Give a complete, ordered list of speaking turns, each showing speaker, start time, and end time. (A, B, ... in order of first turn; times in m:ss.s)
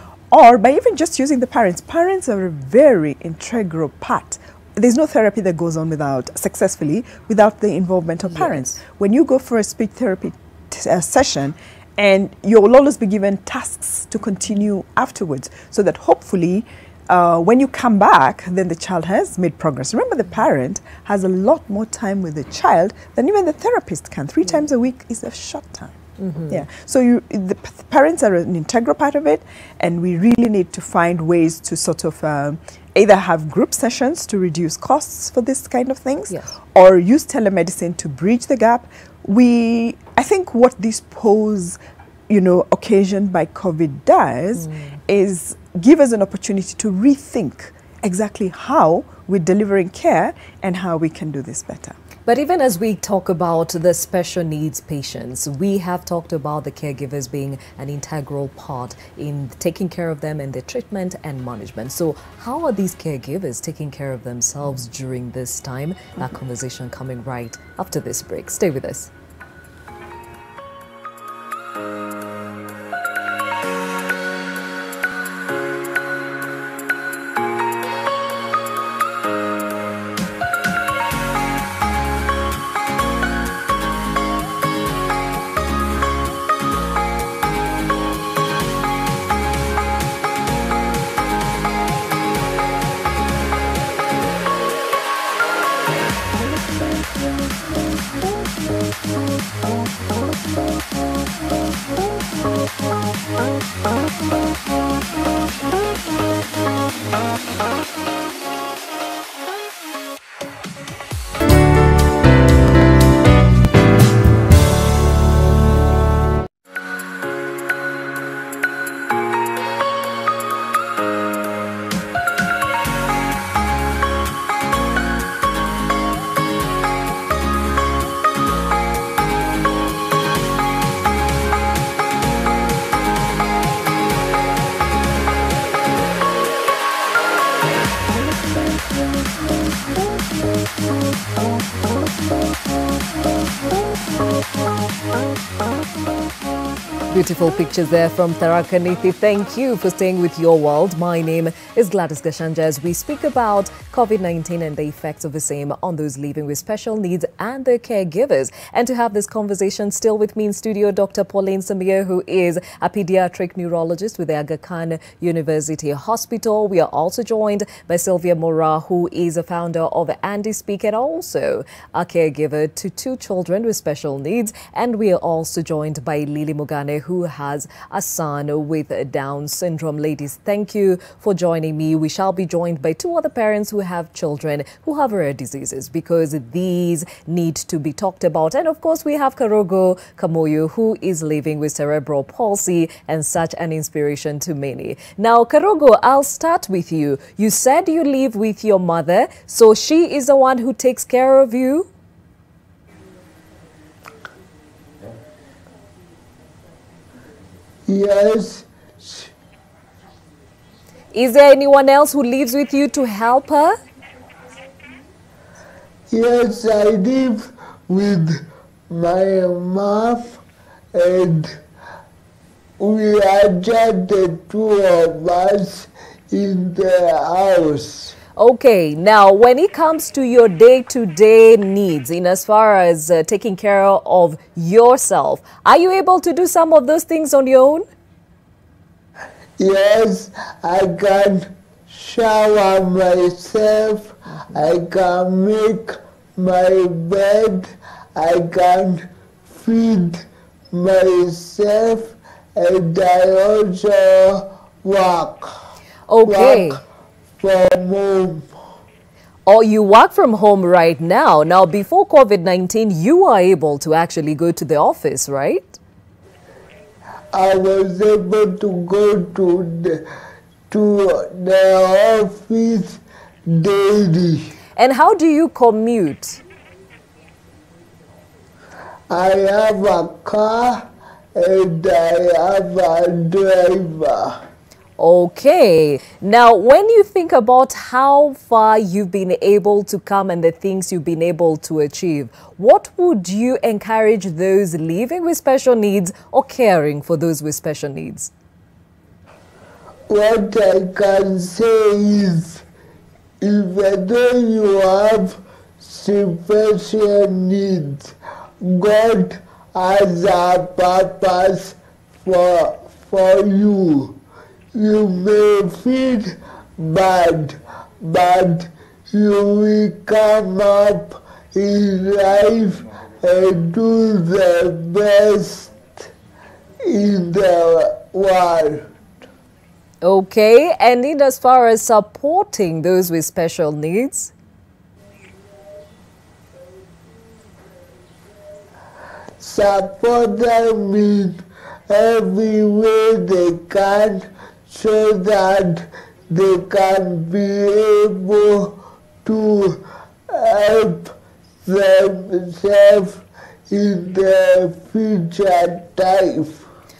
0:00.3-0:26.0 A
0:08.2-0:08.8 B
0:26.2-0:26.6 B
0:26.5-0:52.0 A
0:44.6-0:45.0 B
0:52.3-1:09.1 B
2:27.1-3:21.9 B
3:27.9-3:29.3 C
3:31.1-3:33.8 B
3:36.1-3:40.4 C
3:40.9-3:41.6 C
3:42.8-3:48.2 C
3:48.4-3:57.9 B
3:59.6-4:15.5 C
4:04.4-4:04.7 B
4:16.1-4:16.8 B
4:16.2-4:16.8 C
4:17.4-4:18.5 C
4:19.5-4:25.8 B
4:27.3-4:30.0 C
4:30.7-4:34.5 C
4:34.8-4:36.4 B
4:39.1-4:44.4 C
4:45.0-4:58.3 B
5:00.1-5:02.6 C
5:03.4-5:14.2 C
5:14.7-5:26.1 C
5:26.9-5:28.9 C
5:30.0-5:34.3 B
5:39.4-5:51.1 C
5:51.7-5:56.6 C